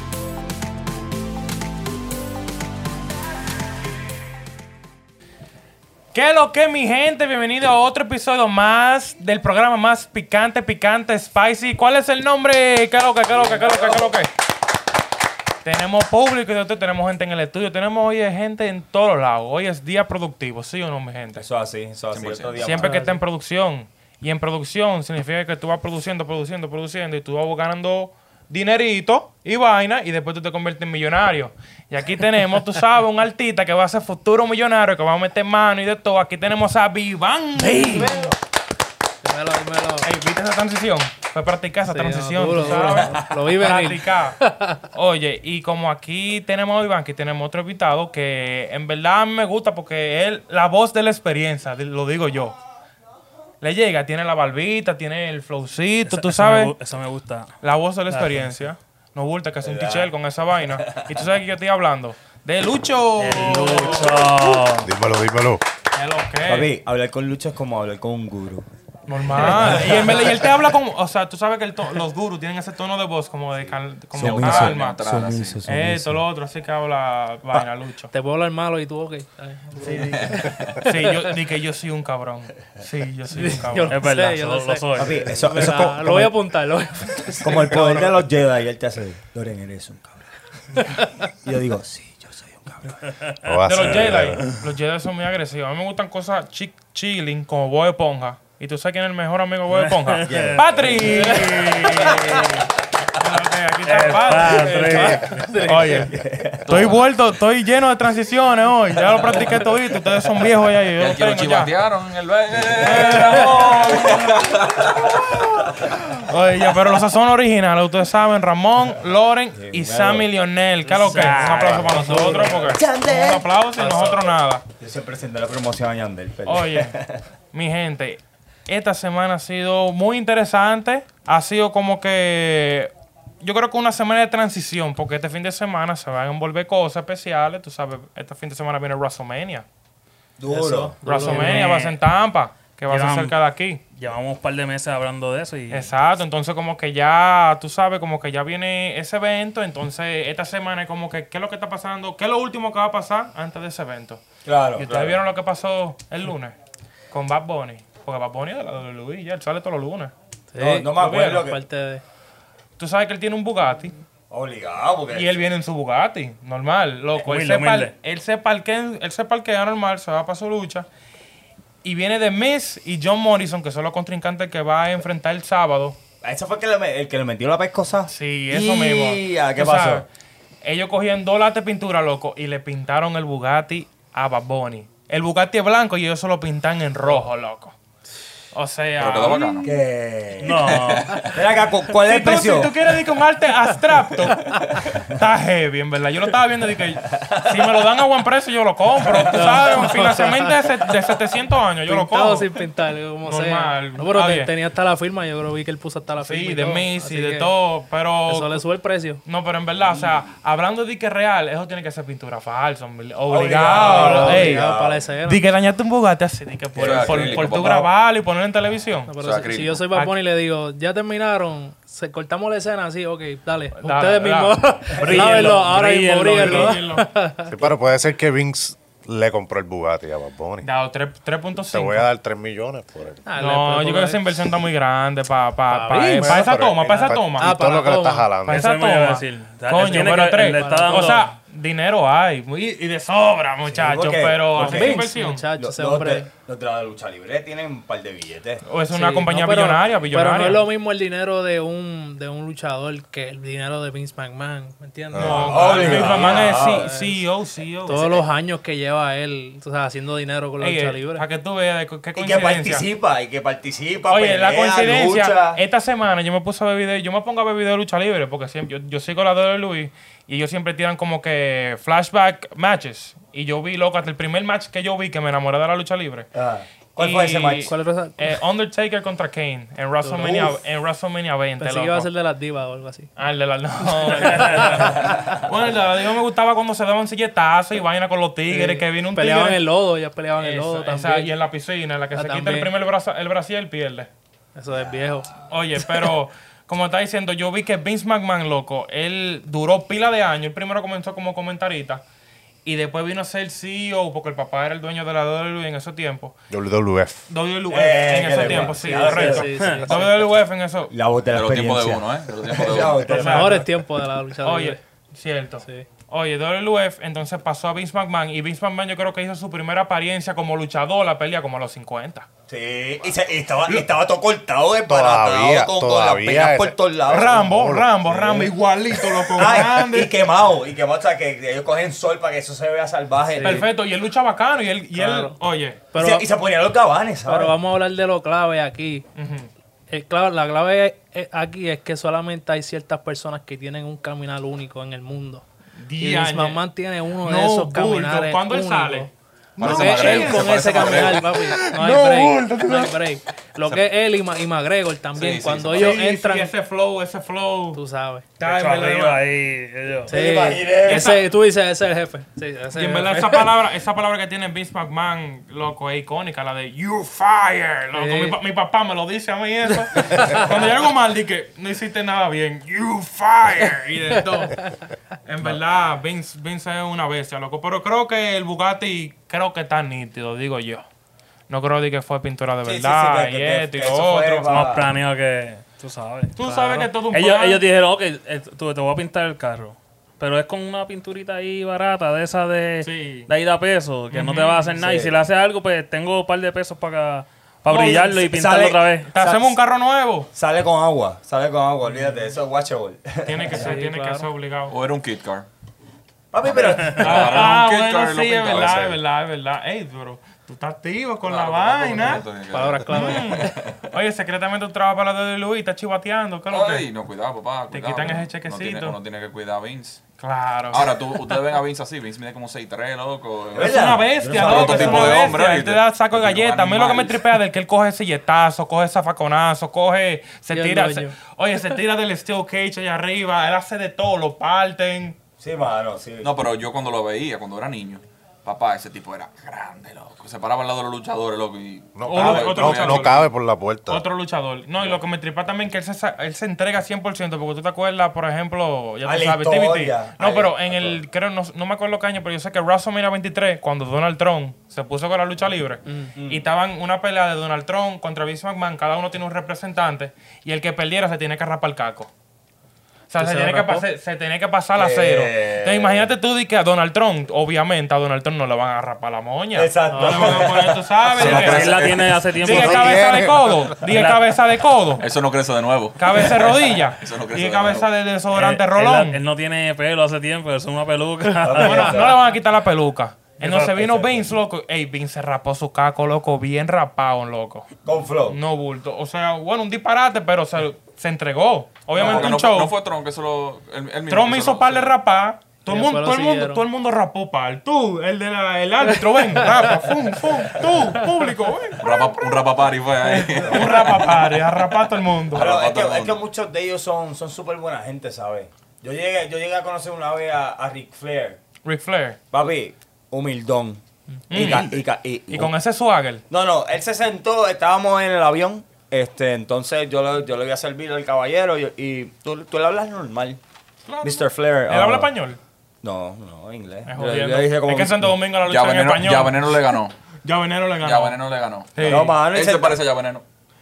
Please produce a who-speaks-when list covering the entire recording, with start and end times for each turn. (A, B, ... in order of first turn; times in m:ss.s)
0:06.1-0:14.3 A
0:13.3-0:14.1 B
0:15.6-0:21.4 A
0:21.4-0:23.2 B
0:22.1-0:22.8 C
0:22.6-0:38.3 A
0:22.8-0:23.1 D
0:37.7-0:38.4 D
0:39.2-0:40.1 D
0:40.0-0:52.6 A
0:41.9-0:44.8 D
0:53.6-0:56.8 A
0:56.1-0:57.5 E
0:57.6-1:04.6 A
0:58.1-0:58.6 E
0:59.6-1:00.1 B
1:00.7-1:01.2 B
1:03.2-1:04.9 E
1:04.8-1:05.6 F
1:05.9-1:06.7 A
1:06.5-1:08.6 B
1:09.1-1:15.0 A
1:09.3-1:10.4 B
1:13.6-1:16.2 B
1:14.2-1:15.6 C
1:15.6-1:18.1 A
1:18.1-1:21.3 D
1:19.8-1:24.1 A
1:19.9-1:20.8 C
1:23.3-1:28.2 D
1:23.9-1:25.7 E
1:25.0-1:26.3 B
1:27.4-1:33.0 B
1:33.0-1:33.5 E
1:33.4-1:34.5 F
1:33.7-1:42.6 A
1:39.7-1:40.6 E
1:40.3-1:41.8 B
1:41.9-1:42.7 E
1:43.2-1:51.7 A
1:43.8-1:45.6 E
1:44.4-1:46.1 D
1:45.9-1:46.7 B
1:46.6-1:47.1 C
1:51.0-1:55.7 C
1:52.8-2:04.6 A
1:59.5-2:00.3 B
2:00.8-2:02.2 E
2:01.1-2:03.6 B
2:02.1-2:02.6 D
2:03.8-2:04.2 D
2:04.8-2:07.2 B
2:06.5-2:07.0 A
2:07.5-2:12.9 A
2:13.4-2:19.7 A
2:20.4-2:21.6 B
2:20.5-2:23.8 A
2:21.0-2:21.6 D
2:21.2-2:22.0 E
2:22.9-2:23.4 E
2:23.9-2:25.9 E
2:25.7-2:34.2 A
2:34.4-2:35.2 B
2:34.8-2:36.6 A
2:37.1-2:40.1 A
2:40.5-2:42.0 D
2:40.6-2:41.6 B
2:42.8-2:44.0 A
2:44.3-2:45.4 B
2:45.1-2:50.9 A
2:47.2-2:47.9 E
2:51.8-2:56.0 A
2:56.2-3:00.1 B
2:58.1-3:00.0 A
3:00.6-3:07.8 A
3:08.5-3:09.8 A
3:09.0-3:09.7 C
3:09.6-3:10.8 B
3:10.4-3:11.3 E
3:10.6-3:11.4 C
3:11.3-3:12.8 B
3:12.0-3:22.5 A
3:19.2-3:20.5 D
3:21.9-3:27.5 D
3:23.2-3:24.5 A
3:26.2-3:28.6 A
3:28.3-3:29.2 D
3:29.2-3:34.6 A
3:29.8-3:30.2 B
3:33.3-3:35.0 B
3:33.7-3:35.4 D
3:35.3-3:39.1 A
3:36.8-3:37.9 B
3:36.8-3:37.8 C
3:39.1-3:47.6 D
3:39.2-3:39.8 C
3:43.7-3:44.6 A
3:45.0-3:46.8 E
3:45.0-3:45.3 B
3:45.1-3:45.5 A
3:46.3-3:47.1 A
3:47.5-3:50.7 F
3:50.6-3:52.0 A
3:51.7-3:53.2 F
3:53.3-3:54.5 D
3:53.4-3:57.5 A
3:55.7-3:58.4 D
3:56.2-3:58.7 F
3:58.5-4:01.3 E
3:58.5-4:05.4 A
4:00.4-4:01.2 D
4:03.7-4:08.6 B
4:04.6-4:06.3 D
4:08.6-4:10.7 A
4:08.9-4:17.2 D
4:15.1-4:15.6 F
4:15.2-4:18.2 A
4:15.2-4:16.9 B
4:17.9-4:21.2 D
4:20.6-4:22.9 A
4:22.2-4:25.6 B
4:24.1-4:36.3 A
4:36.3-4:37.7 B
4:37.0-4:42.1 A
4:37.7-4:38.3 D
4:40.0-4:40.6 D
4:41.6-4:43.1 D
4:43.2-4:49.6 A
4:44.0-4:45.4 D
4:48.5-4:51.3 D
4:50.4-4:54.1 A
4:52.1-4:52.7 D
4:54.6-4:55.3 D
4:55.5-5:02.0 A
5:02.6-5:06.4 A
5:06.5-5:07.3 F
5:07.3-5:10.9 A
5:07.7-5:10.0 B
5:08.4-5:10.0 D
5:09.3-5:09.8 E
5:10.9-5:13.7 B
5:11.3-5:13.3 C
5:13.0-5:14.8 D
5:13.1-5:13.7 A
5:14.4-5:22.3 A
5:22.5-5:28.5 B
5:24.9-5:28.5 F
5:27.1-5:30.1 A
5:29.3-5:33.7 B
5:33.3-5:33.7 D
5:33.4-5:35.8 A
5:35.0-5:35.4 D
5:35.9-5:36.3 D
5:36.0-5:37.6 B
5:37.2-5:39.1 D
5:39.2-5:39.5 A
5:39.9-5:45.4 D
5:45.8-5:46.6 A
5:46.0-5:56.5 D
5:47.2-5:51.3 A
5:49.6-5:51.6 C
5:51.7-5:52.9 B
5:55.2-5:56.0 C
5:55.7-5:57.8 A
5:57.7-5:58.3 D
5:58.4-5:59.2 A
5:58.4-6:00.2 E
6:00.1-6:03.6 D
6:00.1-6:01.1 B
6:00.8-6:01.2 A
6:02.7-6:14.6 A
6:07.9-6:08.4 D
6:15.2-6:20.9 A
6:21.5-6:24.6 A
6:22.6-6:24.9 B
6:24.5-6:39.1 E
6:26.4-6:27.6 A
6:26.5-6:26.8 D
6:32.8-6:33.3 A
6:34.1-6:34.8 A
6:34.8-6:35.2 B
6:37.7-6:38.3 A
6:38.2-6:39.6 B
6:39.1-6:40.3 A
6:40.3-6:43.7 B
6:43.2-6:44.7 A
6:43.5-6:44.2 D
6:44.7-6:45.5 C
6:46.3-6:47.6 B
6:46.4-6:49.0 C
6:46.8-6:52.3 A
6:46.9-6:47.1 E
6:48.5-6:49.0 F
6:51.2-6:53.8 C
6:52.5-6:53.6 D
6:52.9-6:56.9 A
6:56.5-7:00.0 C
6:57.7-6:59.0 A
7:00.2-7:00.9 A
7:00.7-7:07.3 C
7:03.5-7:05.3 B
7:03.6-7:15.2 A
7:10.5-7:11.1 D
7:15.4-7:16.4 B
7:16.2-7:23.3 C
7:22.0-7:24.0 F
7:22.0-7:23.3 A
7:23.9-7:42.1 A
7:29.0-7:30.6 B
7:36.2-7:36.5 B
7:43.1-7:51.8 A
7:43.2-7:43.8 D
7:44.8-7:46.1 B
7:49.6-7:51.8 B
7:49.9-7:50.5 D
7:51.1-7:52.2 C
7:51.2-7:53.1 E
7:52.4-7:53.8 F
7:52.4-7:55.1 A
7:53.8-7:54.2 E
7:55.0-7:57.9 C
7:56.0-7:59.2 A
7:58.3-8:02.0 E
8:01.4-8:02.2 B
8:01.6-8:07.7 A
8:03.4-8:04.4 B
8:07.8-8:08.4 B
8:08.3-8:12.7 A
8:11.9-8:14.9 C
8:12.0-8:12.3 B
8:14.1-8:22.1 A
8:15.7-8:16.6 D
8:19.3-8:19.6 D
8:21.8-8:24.2 C
8:23.1-8:25.5 A
8:23.4-8:23.7 B
8:25.3-8:26.2 C
8:25.4-8:31.4 B
8:31.6-8:32.2 A
8:32.3-8:33.8 B
8:34.3-8:34.8 A
8:34.3-8:35.5 B
8:34.3-8:34.8 C
8:35.3-8:36.2 A
8:36.3-8:43.4 B
8:43.9-8:45.4 A
8:44.0-8:45.1 B
8:45.8-8:48.2 B
8:46.9-8:49.6 A
8:48.5-8:50.0 C
8:50.2-8:51.2 A
8:50.8-8:53.2 C
8:51.7-8:52.2 A
8:51.8-8:52.8 B